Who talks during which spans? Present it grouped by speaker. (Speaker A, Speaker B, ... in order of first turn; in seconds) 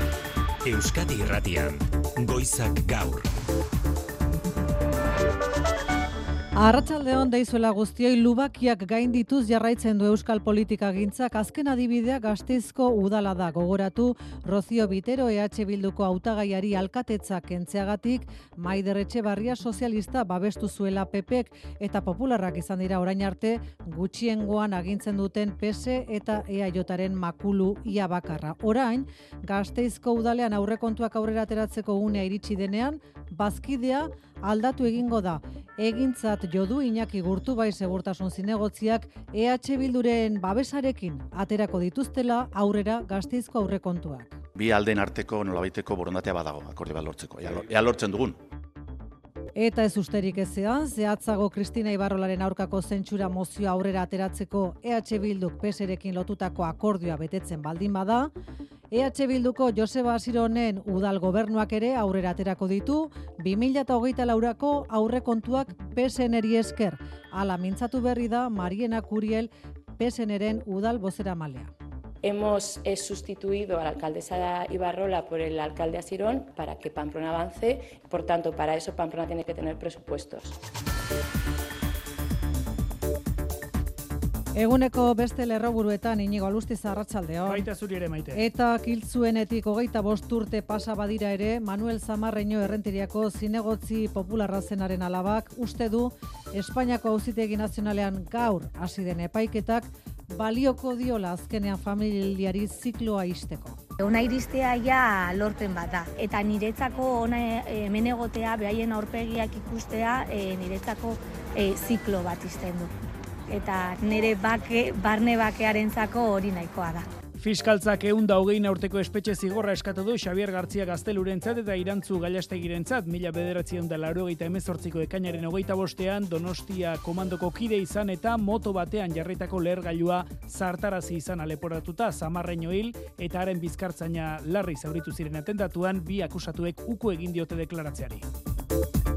Speaker A: 0.7-3.3
Speaker B: 6.6-44.4, 49.6-58.3, 58.9-71.7, 84.5-87.7, 88.3-103.8
Speaker C: 44.6-48.3
Speaker D: 72.2-80.6
Speaker E: 87.5-88.4, 117.4-138.3
Speaker F: 104.0-112.9, 113.5-117.1